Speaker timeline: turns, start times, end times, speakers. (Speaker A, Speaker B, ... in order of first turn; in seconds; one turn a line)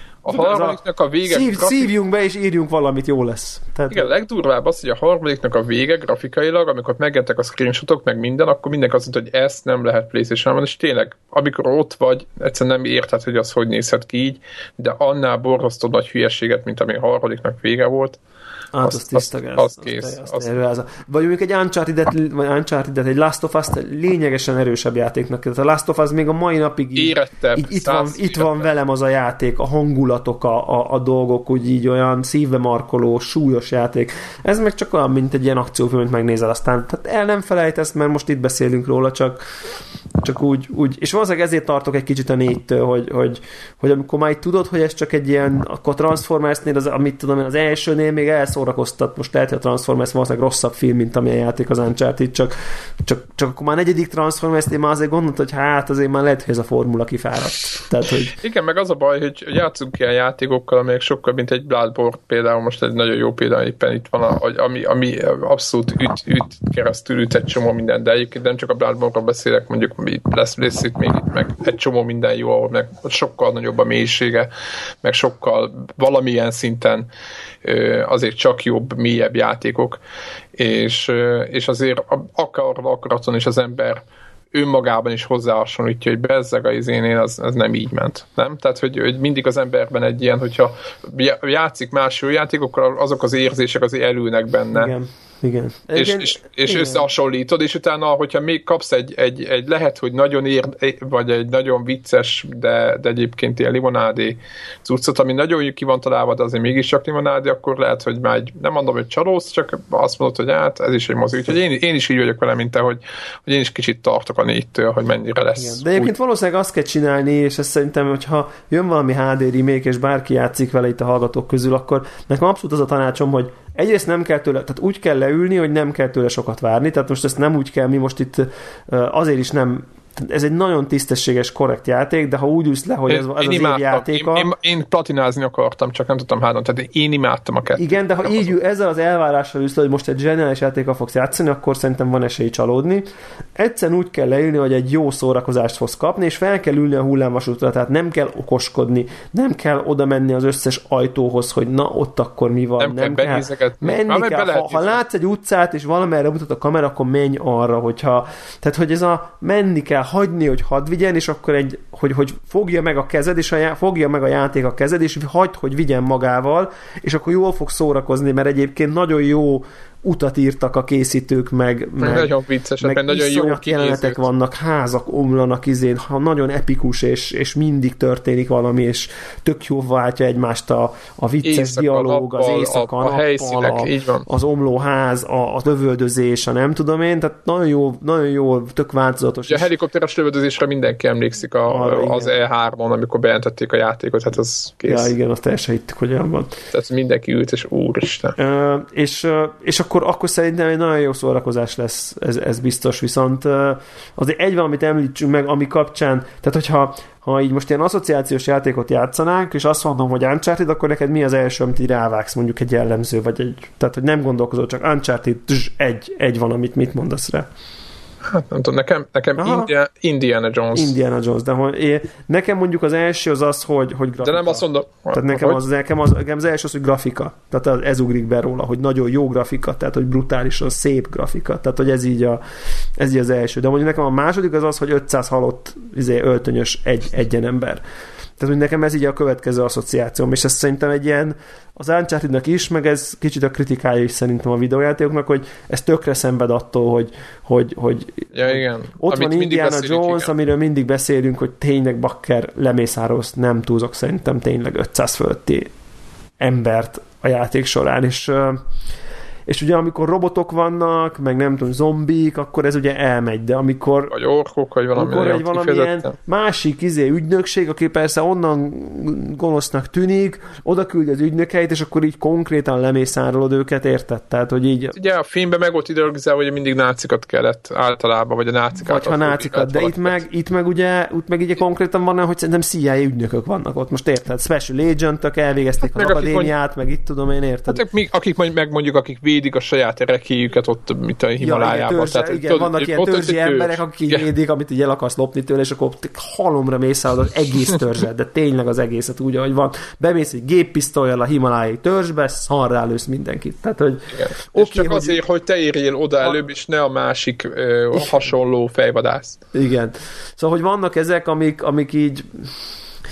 Speaker A: 0.2-1.9
Speaker B: 0.3-4.1
Speaker A: 3.9-18.2
Speaker B: 18.7-39.4
Speaker A: 18.8-20.6
Speaker A: 27.0-28.7
Speaker B: 40.2-58.4
Speaker A: 58.4-74.5
Speaker A: 75.0-77.1
Speaker A: 77.6-80.0
Speaker A: 80.6-94.9
Speaker B: 94.7-97.0
Speaker A: 96.0-116.1
Speaker B: 115.6-134.5
Speaker A: 133.1-138.6
Speaker B: 137.8-189.7
Speaker A: 152.8-155.0
Speaker A: 172.0-174.2
Speaker A: 181.4-184.3
Speaker A: 189.5-195.1
Speaker B: 191.7-192.4
Speaker B: 194.9-196.6
Speaker A: 196.7-198.4
Speaker B: 198.4-217.5
Speaker A: 218.3-220.9
Speaker B: 219.4-219.7
Speaker B: 220.7-232.4
Speaker A: 224.2-225.7
Speaker B: 233.0-237.8
Speaker B: 238.4-255.7
Speaker A: 248.3-250.3
Speaker B: 256.4-258.6
Speaker B: 259.5-264.1
Speaker A: 264.1-266.1
Speaker B: 264.9-275.0
Speaker A: 275.0-280.2
Speaker B: 278.8-287.8
Speaker A: 285.8-286.5
Speaker A: 287.7-294.3
Speaker B: 291.4-305.2
Speaker A: 304.1-309.4
Speaker B: 307.9-308.2
Speaker B: 309.5-312.5